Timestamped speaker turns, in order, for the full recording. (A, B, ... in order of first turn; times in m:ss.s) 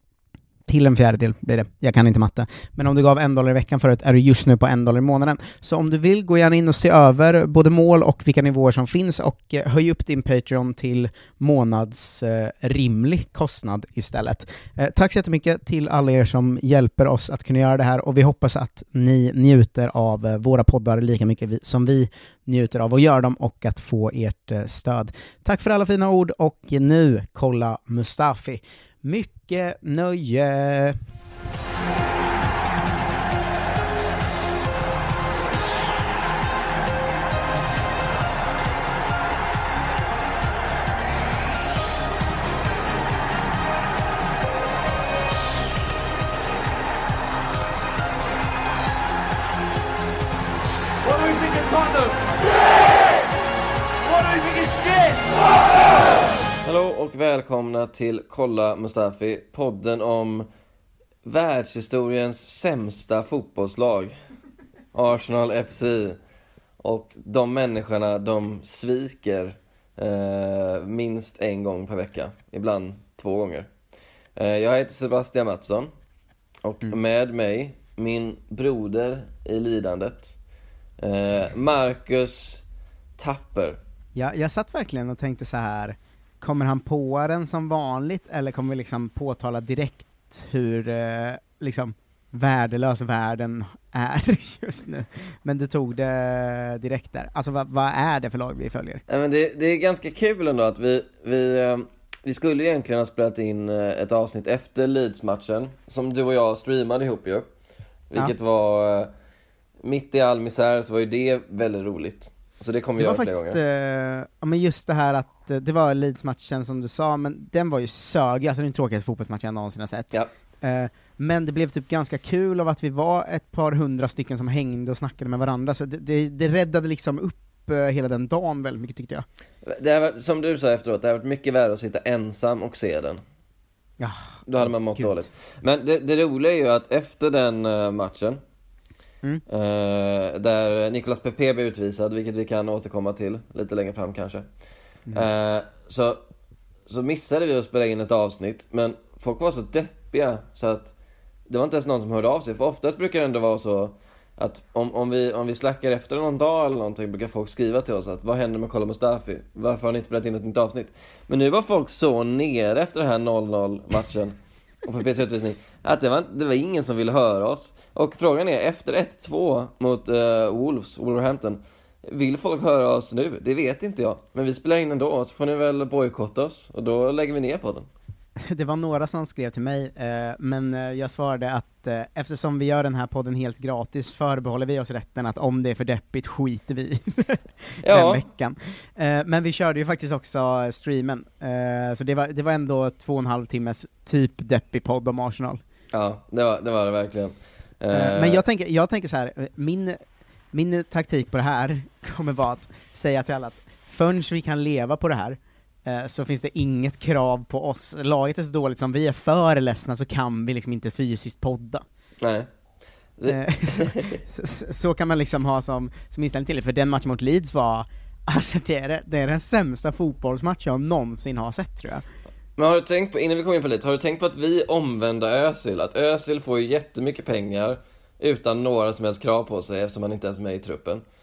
0:00.7-0:31.0 A
0:51.0-0:52.4 B
0:54.0-0:55.3 B
0:56.6-1:00.5 C
1:01.2-1:04.2 C
1:04.9-1:06.2 C
1:06.8-1:13.7 C
1:14.4-1:15.9 C
1:16.6-1:20.3 C
1:21.0-1:22.6 C
1:23.2-1:23.8 C
1:24.2-1:39.0 A
1:39.1-1:47.5 C
1:48.1-1:49.1 C
1:49.8-1:53.6 C
1:53.0-2:09.3 A
2:09.6-2:13.2 C
2:14.0-2:15.3 A
2:14.5-2:18.4 C
2:19.5-2:24.5 C
2:25.1-2:26.2 C
2:26.9-2:30.9 C
2:31.5-2:57.9 C
2:58.4-3:15.6 A
3:07.8-3:08.2 C
3:15.9-3:18.4 C
3:17.9-3:20.0 A
3:20.5-3:31.8 A
3:32.2-3:32.5 C
3:33.2-3:34.2 C
3:33.3-3:42.0 A
3:42.6-3:51.0 C